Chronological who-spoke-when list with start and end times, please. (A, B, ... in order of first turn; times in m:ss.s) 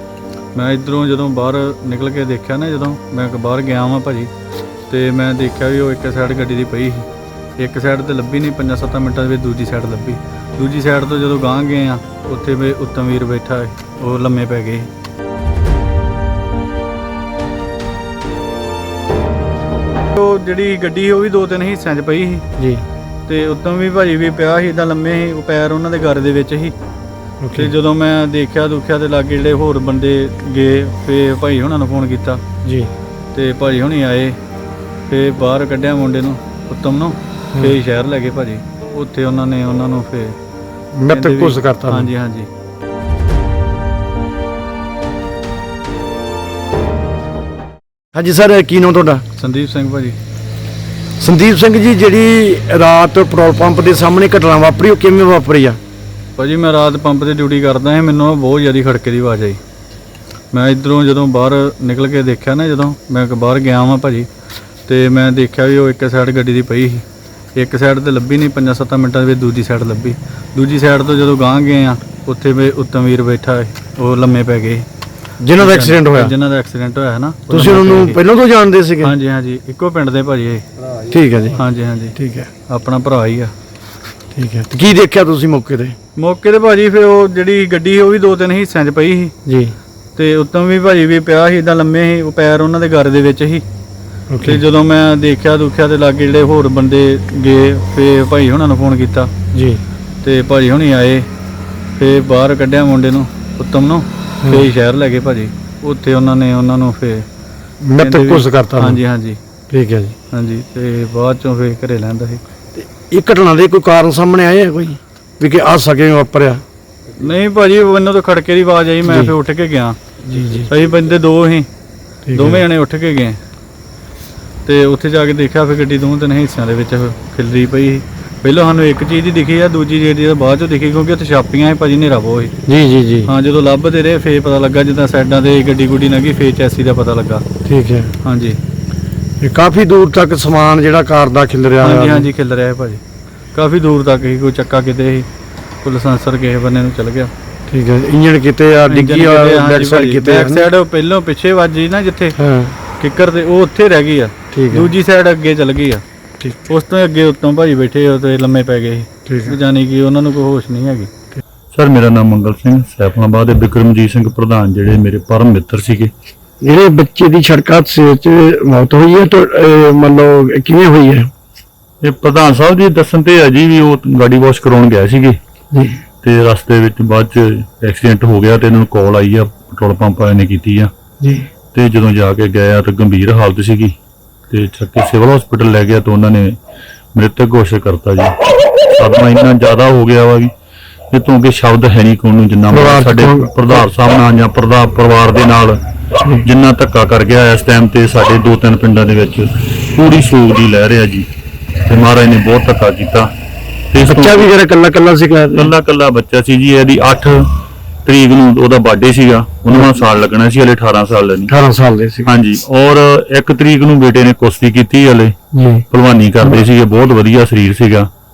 0:00.5-0:04.3 A
0:04.9-0:07.1 A
0:07.6-0:14.9 A
0:20.1-0:22.5 A
0:22.6-0:22.8 B
0:23.3-0:26.8 A
0:27.4-0:27.7 B
0:27.6-0:32.4 A
0:32.6-0:32.9 B
0:33.3-0:34.4 A
0:35.1-0:40.4 A
0:40.9-0:42.1 B
0:41.1-0:42.5 A
0:48.2-0:49.2 B
0:49.4-0:50.2 A
0:51.2-0:55.8 B
0:56.4-0:59.6 A
1:00.5-1:04.3 A
1:04.9-1:14.9 A
1:15.4-1:16.4 B
1:15.6-1:18.2 A
1:17.5-1:19.1 B
1:19.0-1:20.6 A
1:21.1-1:21.6 B
1:21.6-1:22.2 A
1:22.2-1:22.5 B
1:22.7-1:23.5 A
1:24.3-1:26.0 B
1:26.2-1:29.3 A
1:29.4-1:29.8 B
1:30.2-1:33.6 A
1:34.3-1:34.6 B
1:34.4-1:39.3 A
1:39.5-1:39.8 B
1:40.2-1:41.3 A
1:42.0-1:47.3 A
1:44.4-1:44.7 B
1:47.8-1:49.0 B
1:48.0-1:49.4 A
1:49.7-1:50.2 B
1:50.3-1:52.4 A
1:52.8-1:56.6 B
1:57.2-2:00.0 A
1:59.0-1:59.3 B
2:00.2-2:00.7 B
2:00.6-2:01.7 A
2:02.3-2:02.6 B
2:02.3-2:03.4 A
2:04.6-2:12.5 A
2:12.7-2:13.3 B
2:13.3-2:17.4 A
2:17.6-2:18.1 B
2:18.2-2:18.6 A
2:19.4-2:22.3 B
2:21.8-2:23.0 A
2:23.5-2:25.3 A
2:25.8-2:27.3 A
2:27.7-2:30.7 B
2:28.9-2:32.4 A
2:32.4-2:32.8 B
2:33.0-2:36.0 A
2:34.5-2:34.9 B
2:36.7-2:41.1 A
2:39.3-2:39.6 B
2:41.7-2:46.1 C
2:46.6-2:51.3 B
2:52.0-2:55.4 C
2:55.7-2:56.0 B
2:56.2-3:00.9 C
3:01.2-3:01.5 B
3:01.7-3:03.9 C
3:04.5-3:06.6 C
3:07.2-3:10.5 C
3:11.1-3:15.8 C
3:12.7-3:13.9 B
3:16.4-3:21.3 C
3:21.9-3:23.3 C
3:23.9-3:24.5 C
3:24.1-3:25.7 B
3:25.5-3:27.4 C
3:28.0-3:31.5 C
3:29.7-3:30.0 B
3:31.5-3:32.3 B
3:32.2-3:35.4 C
3:35.5-3:35.8 B
3:35.9-3:38.1 C